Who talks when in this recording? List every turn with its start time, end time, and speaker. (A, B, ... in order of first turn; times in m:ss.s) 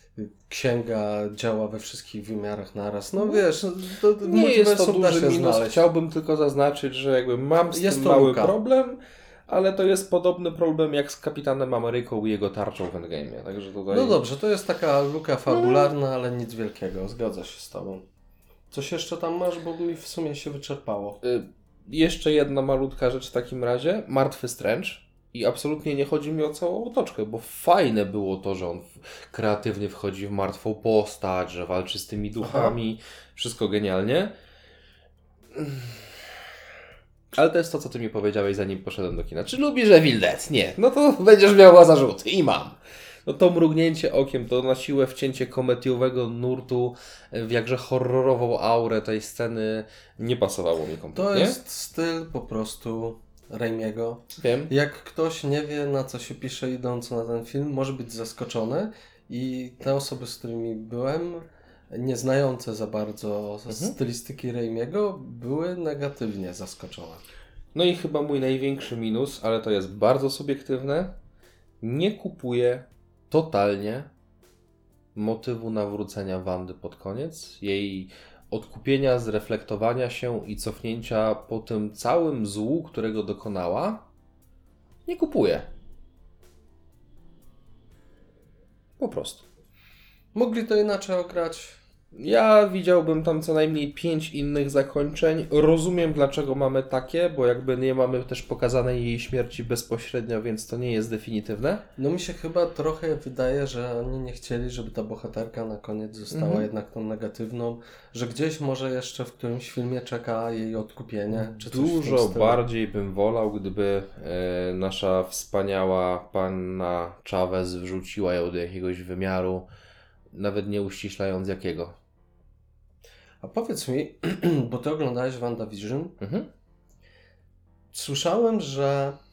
0:00.2-0:05.9 A
0:03.2-0:03.5 B
0:04.2-0:14.2 B
0:07.7-0:08.6 A
0:13.9-0:18.0 A
0:15.5-0:15.9 B
0:18.7-0:21.2 A
0:21.2-0:34.3 B
0:32.4-0:32.7 A
0:35.5-0:36.3 B
0:37.3-0:51.6 B
0:51.1-1:07.2 A
0:54.4-0:54.7 B
1:03.7-1:04.0 B
1:07.7-1:11.2 B
1:11.8-1:14.1 B
1:15.2-1:24.1 B
1:25.1-1:25.7 B
1:29.0-1:29.5 B
1:30.3-1:31.8 A
1:32.1-1:41.8 B
1:42.0-1:52.6 A
1:46.3-1:46.7 B
1:51.3-1:59.7 B
2:00.3-2:02.0 B
2:03.4-2:06.2 A
2:06.2-2:06.5 B
2:07.9-2:09.2 A